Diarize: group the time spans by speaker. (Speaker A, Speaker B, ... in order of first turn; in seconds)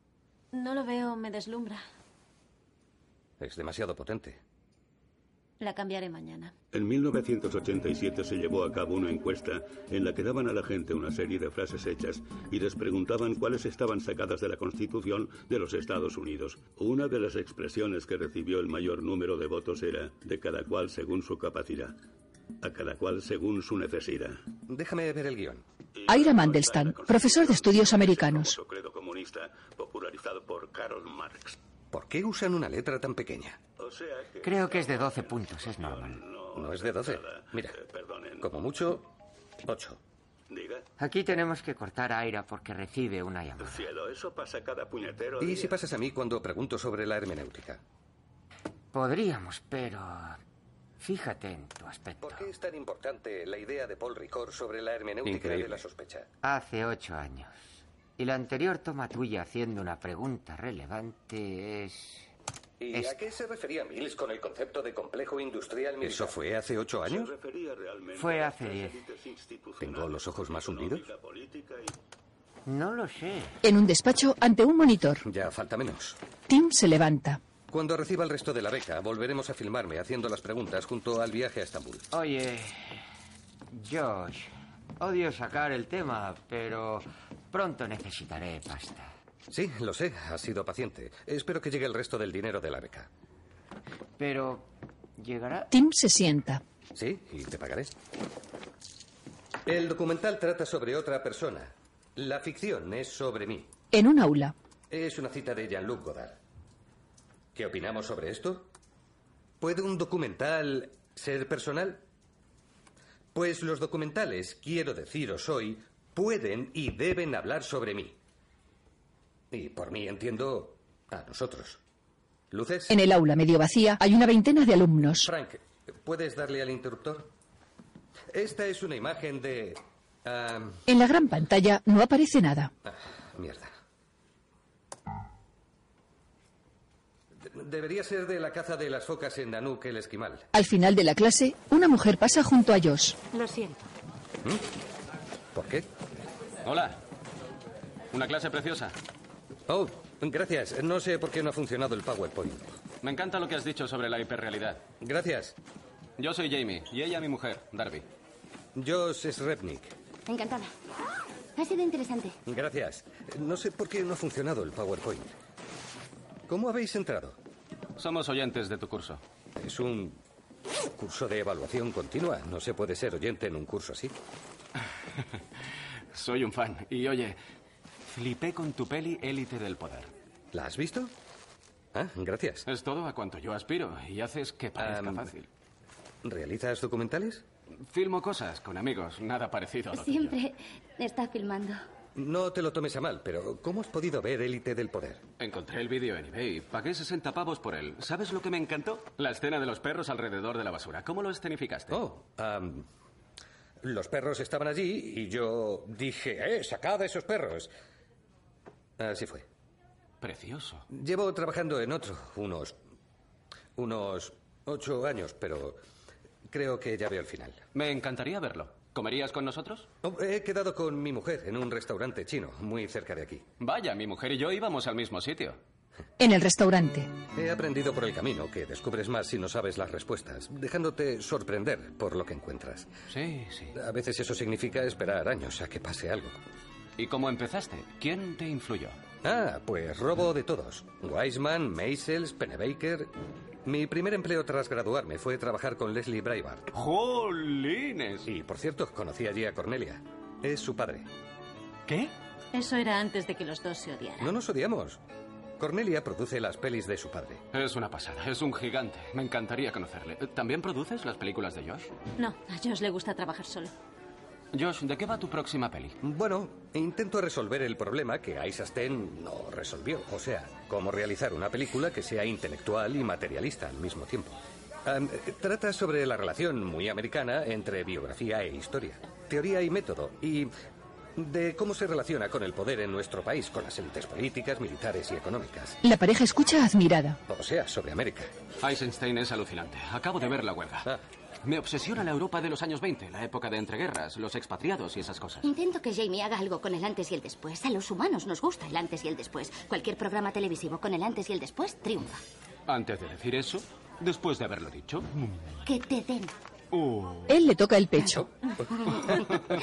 Speaker A: 0.5-1.8, 5.6-6.5, 252.5-254.3, 262.2-263.7
Speaker B: 3.4-4.4, 24.7-25.6, 31.9-33.6, 36.5-37.8, 38.4-39.1, 39.6-40.0, 45.4-47.8, 52.2-56.3, 62.8-67.3, 69.8-71.1, 75.2-76.2, 77.7-82.1, 89.5-93.1, 96.9-97.9, 99.7-103.7, 104.9-106.4, 107.5-108.7, 109.6-112.0, 113.3-118.2, 119.5-121.8, 122.5-123.0, 125.2-127.3, 128.3-130.8, 132.8-133.7, 137.4-140.5, 145.5-145.9, 149.7-152.8, 155.0-155.6, 158.8-159.9, 162.4-165.3, 166.5-167.4, 169.6-170.2, 170.9-174.1, 180.5-181.1, 181.9-182.7, 184.8-185.3, 186.2-187.4, 192.2-195.2, 201.9-202.9, 203.8-207.7, 209.0-209.4, 210.9-212.8, 213.8-215.8, 216.5-217.6, 220.0-223.4, 227.3-232.9, 233.7-236.4, 239.2-243.1, 243.6-246.7, 248.3-251.1, 254.2-255.0, 255.6-257.4, 266.0-280.5, 281.2-285.8, 287.3-288.3
Speaker C: 6.7-21.9, 22.6-24.4, 26.0-31.6, 33.8-38.5, 40.5-40.8, 43.6-45.8, 67.0-71.9
Speaker D: 26.1-28.6, 73.6-75.2, 76.5-77.4, 95.7-96.6, 103.9-104.5, 122.9-125.3, 130.9-132.7, 140.5-143.2, 226.2-227.1, 285.8-287.2, 307.3-308.3
Speaker E: 34.4-36.2, 41.0-43.9, 48.9-50.4, 51.0-52.5, 56.4-62.2, 68.1-69.0, 72.7-73.5, 82.1-83.0, 83.7-89.1, 94.2-95.7
Speaker F: 146.6-147.0, 148.1-148.9, 153.0-154.8, 156.2-158.0, 168.0-169.2, 176.1-177.4, 178.1-180.1, 182.7-185.5, 187.8-190.3, 195.4-202.0, 210.2-210.8, 217.7-219.9, 223.6-225.6, 233.1-233.7, 237.0-239.0, 246.7-248.3, 257.5-261.9, 264.5-266.0, 288.6-290.9, 291.4-295.5, 302.7-305.6, 306.7-307.3
Speaker G: 160.3-160.7, 161.6-162.3, 189.9-191.8, 295.4-302.2, 305.6-306.3